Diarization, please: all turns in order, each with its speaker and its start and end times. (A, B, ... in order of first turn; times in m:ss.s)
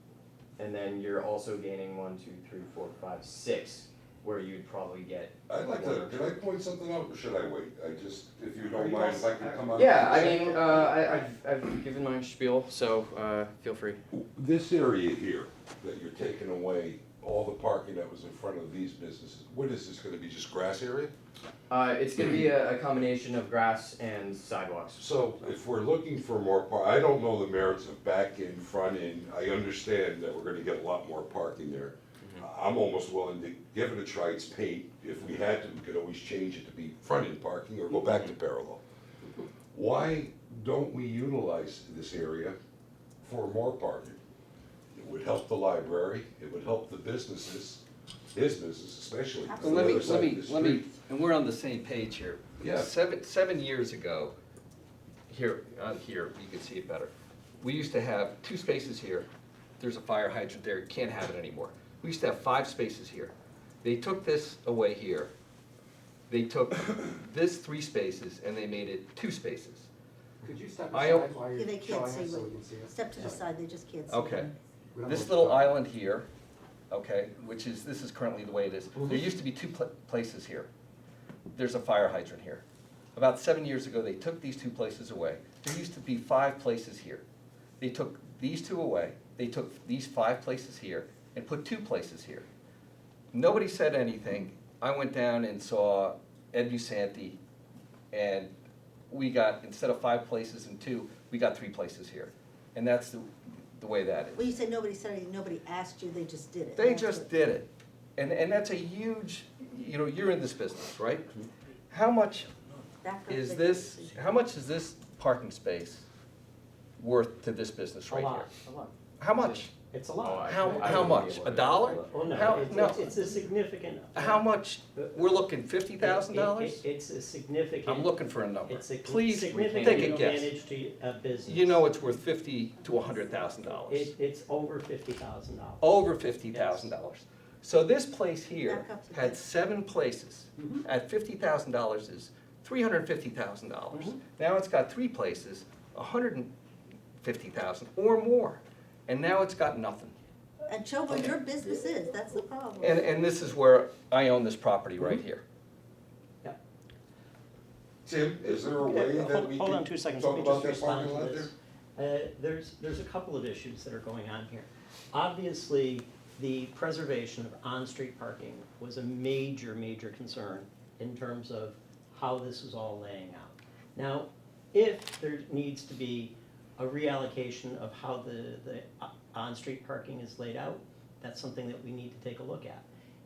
0:00.6-0:06.2 A
0:05.5-0:11.0 B
0:08.8-0:14.0 A
0:14.1-0:21.1 B
0:21.7-0:25.1 A
0:25.0-0:38.8 B
0:39.7-0:42.6 B
0:43.2-0:44.2 B
0:44.9-0:50.9 B
0:49.5-0:54.3 C
0:49.8-0:50.1 D
0:52.6-0:52.9 B
0:55.3-0:59.3 C
0:59.8-1:05.3 C
1:06.3-1:09.9 C
1:10.4-1:13.2 E
1:10.9-1:11.4 C
1:11.5-1:14.5 D
1:14.1-1:14.5 C
1:14.9-1:15.8 E
1:15.0-1:16.3 C
1:16.9-1:20.7 C
1:21.5-1:22.6 C
1:23.1-1:27.2 C
1:27.8-1:32.5 C
1:33.3-1:37.4 C
1:38.1-1:38.5 C
1:39.1-1:44.6 C
1:44.3-1:47.3 D
1:46.8-1:51.3 C
1:51.9-1:52.6 C
1:53.0-1:54.2 D
1:53.3-1:56.0 C
1:57.0-1:58.5 C
1:58.1-1:58.9 F
1:59.2-1:59.7 C
1:59.9-2:01.1 F
2:00.2-2:02.5 A
2:00.4-2:03.2 C
2:02.1-2:11.9 F
2:04.1-2:06.8 C
2:07.8-2:10.5 C
2:09.5-2:10.2 A
2:11.4-2:14.1 C
2:12.8-2:13.6 D
2:13.8-2:15.8 F
2:15.8-2:26.5 C
2:16.5-2:16.9 F
2:18.6-2:19.4 D
2:23.9-2:24.2 F
2:27.2-2:30.1 C
2:30.7-2:33.1 D
2:32.8-2:35.4 C
2:38.0-2:41.5 B
2:38.8-3:02.8 F